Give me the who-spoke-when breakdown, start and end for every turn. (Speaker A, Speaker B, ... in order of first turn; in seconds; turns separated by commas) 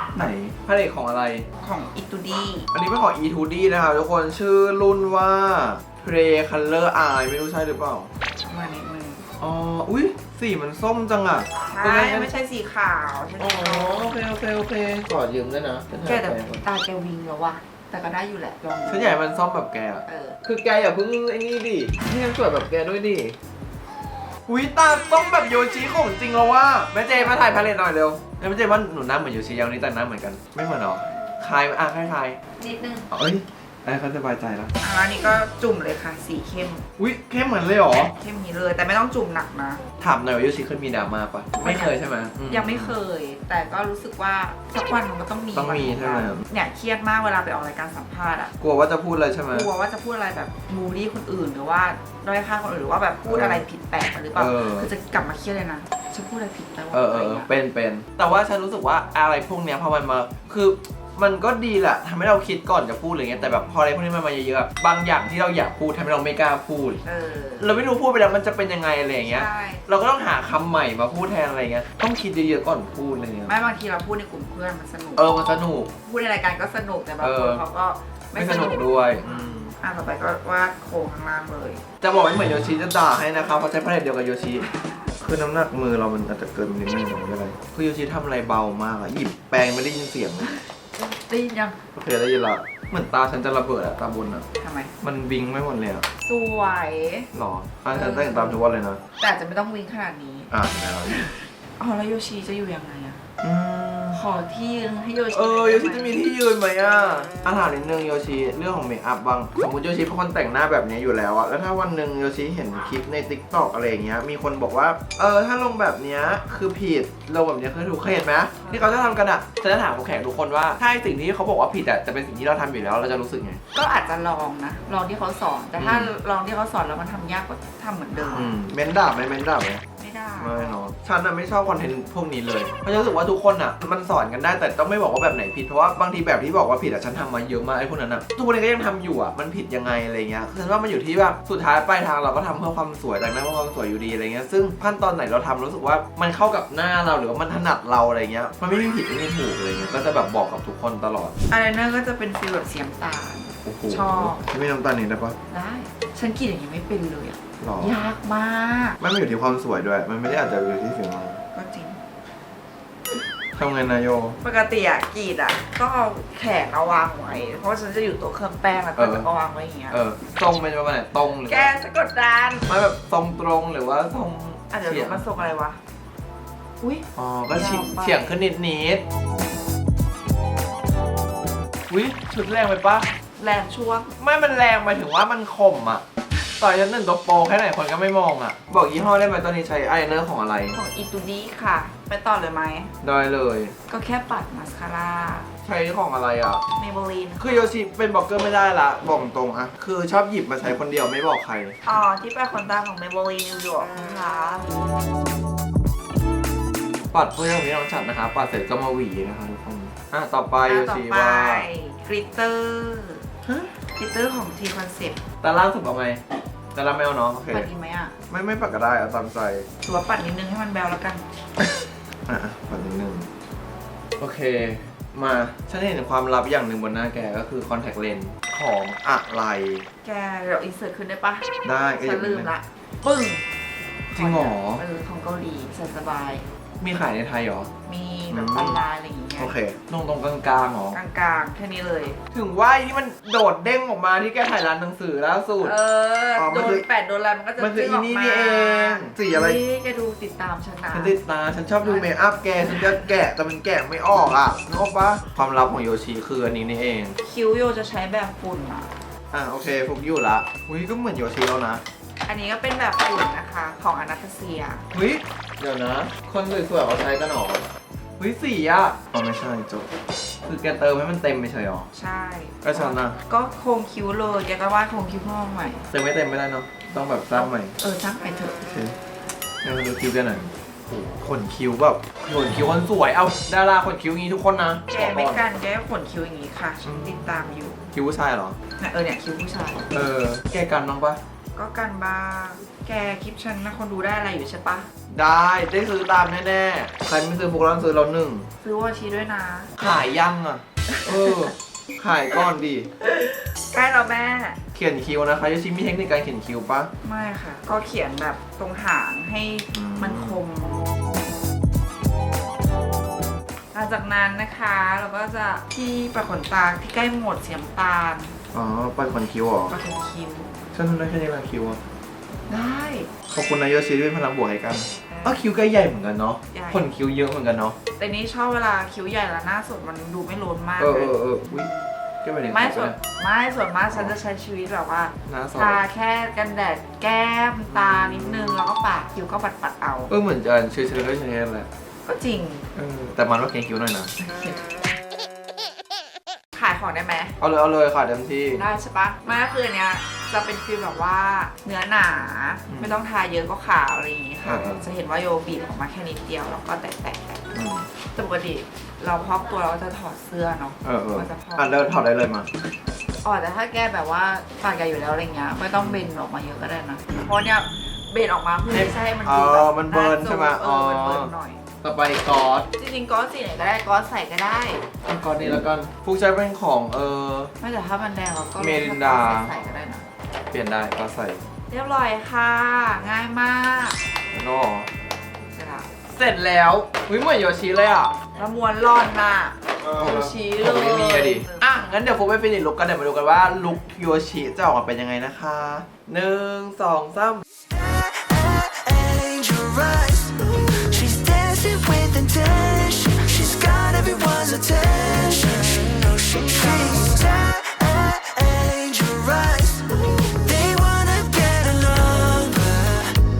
Speaker A: 0.1-1.4, Speaker B: 1.6-2.7, Speaker A: 2.7-8.1, Speaker B: 8.4-9.2, Speaker A: 9.4-12.3, Speaker B: 11.7-14.2, Speaker A: 13.4-16.6, Speaker B: 16.0-19.2, Speaker A: 18.9-23.4, Speaker B: 20.1-20.4, Speaker A: 24.5-32.4, Speaker B: 27.1-27.7, Speaker B: 32.6-33.1, Speaker A: 33.1-34.7, Speaker B: 34.8-36.8, Speaker A: 37.0-38.1, Speaker B: 38.2-39.8, Speaker A: 40.0-42.9, Speaker B: 41.5-41.9, Speaker B: 42.5-48.5, Speaker A: 45.5-46.4, Speaker A: 48.6-49.7, Speaker B: 49.5-57.5, Speaker A: 53.2-53.6, Speaker A: 54.3-54.9, Speaker A: 56.9-67.0, Speaker B: 67.0-67.8, Speaker A: 67.6-73.5, Speaker B: 69.2-69.8, Speaker B: 73.5-75.3, Speaker A: 75.2-75.9, Speaker B: 75.9-81.8, Speaker A: 77.2-77.6, Speaker A: 78.3-79.7, Speaker A: 82.0-84.7, Speaker B: 84.6-85.0, Speaker A: 85.2-90.5, Speaker B: 90.4-91.8, Speaker A: 91.9-94.4, Speaker B: 94.6-94.9, Speaker A: 95.0-96.0, Speaker B: 96.2-97.3, Speaker A: 97.3-99.0, Speaker B: 97.9-98.6, Speaker B: 99.2-100.5, Speaker A: 100.5-101.2, Speaker B: 101.1-103.2, Speaker A: 103.4-104.2, Speaker B: 104.1-106.2, Speaker A: 105.3-123.6, Speaker B: 118.6-119.3, Speaker B: 123.7-128.6, Speaker A: 125.8-126.1, Speaker A: 128.3-129.8, Speaker B: 130.0-130.8, Speaker A: 130.4-151.3, Speaker B: 151.5-154.4, Speaker A: 153.6-155.3, Speaker B: 155.5-159.0, Speaker A: 157.6-157.9, Speaker A: 159.0-161.4, Speaker B: 161.5-162.0, Speaker A: 163.6-164.4, Speaker B: 164.4-169.9, Speaker A: 169.0-169.3, Speaker A: 169.9-171.7, Speaker B: 171.4-172.7, Speaker A: 172.7-175.5, Speaker B: 174.7-175.8, Speaker B: 176.8-178.4, Speaker A: 177.2-179.0, Speaker A: 181.9-183.1, Speaker B: 183.4-184.1, Speaker A: 184.2-186.0, Speaker A: 186.6-190.8, Speaker B: 190.7-192.9, Speaker A: 193.0-193.7, Speaker B: 193.9-195.5, Speaker A: 195.6-196.6, Speaker B: 196.8-197.7, Speaker A: 197.4-201.7, Speaker B: 201.8-204.7, Speaker A: 207.1-211.7, Speaker B: 210.7-213.2, Speaker A: 213.4-213.7, Speaker B: 213.9-215.2, Speaker A: 215.4-216.2, Speaker A: 216.7-217.7, Speaker B: 217.5-218.1, Speaker A: 218.3-219.7, Speaker B: 219.8-221.2, Speaker A: 222.3-223.3, Speaker A: 224.2-229.8, Speaker B: 230.0-233.4, Speaker A: 231.6-232.5, Speaker B: 234.1-236.4, Speaker A: 234.1-234.8, Speaker A: 236.8-237.7, Speaker B: 237.9-239.5, Speaker A: 238.3-238.8, Speaker A: 239.4-241.0, Speaker B: 240.9-242.2, Speaker A: 242.3-245.7, Speaker B: 245.6-251.1, Speaker A: 246.4-246.8, Speaker A: 247.6-249.6, Speaker A: 250.9-257.2, Speaker B: 251.8-253.1, Speaker B: 257.2-258.9, Speaker A: 259.3-261.8, Speaker B: 262.2-264.8, Speaker A: 264.9-269.9, Speaker A: 270.4-271.9, Speaker B: 271.9-275.8, Speaker A: 272.6-273.1, Speaker A: 275.9-277.7, Speaker B: 277.3-278.7, Speaker A: 278.6-278.9, Speaker A: 279.6-285.4, Speaker B: 284.9-287.9, Speaker A: 286.8-287.3, Speaker A: 287.9-288.6, Speaker B: 288.8-289.9, Speaker A: 289.9-291.2, Speaker B: 291.6-294.9, Speaker A: 295.1-298.5, Speaker B: 298.6-299.7, Speaker A: 299.8-302.9, Speaker B: 300.9-301.5, Speaker B: 303.0-304.6, Speaker A: 304.7-306.9, Speaker B: 307.0-310.8, Speaker A: 309.7-310.4, Speaker B: 313.7-318.3, Speaker A: 318.5-319.7, Speaker B: 319.7-320.5, Speaker A: 320.7-321.8, Speaker B: 322.5-323.1, Speaker A: 323.3-327.8, Speaker B: 325.1-325.4, Speaker B: 326.5-326.9, Speaker B: 328.0-331.9, Speaker A: 330.8-331.7, Speaker A: 332.2-333.0, Speaker B: 332.5-340.1, Speaker A: 335.3-335.8, Speaker A: 337.7-338.7, Speaker A: 340.1-341.7, Speaker B: 342.1-342.6, Speaker A: 342.7-344.1, Speaker B: 344.2-344.8, Speaker B: 346.6-347.3, Speaker A: 347.4-348.6, Speaker B: 348.6-357.4, Speaker A: 352.7-353.0, Speaker A: 354.4-354.8, Speaker A: 357.5-357.9, Speaker B: 358.1-362.0, Speaker A: 360.8-362.5, Speaker B: 363.2-371.6, Speaker A: 365.8-366.0, Speaker A: 368.7-371.3, Speaker A: 371.8-372.7, Speaker B: 372.8-374.8, Speaker A: 375.1-377.5, Speaker B: 377.6-380.0, Speaker A: 378.6-379.5, Speaker A: 380.5-381.4, Speaker B: 381.7-384.0, Speaker A: 384.3-384.9, Speaker B: 385.5-385.9, Speaker A: 386.1-388.2, Speaker B: 388.3-391.8, Speaker A: 389.8-397.4, Speaker C: 397.7-413.2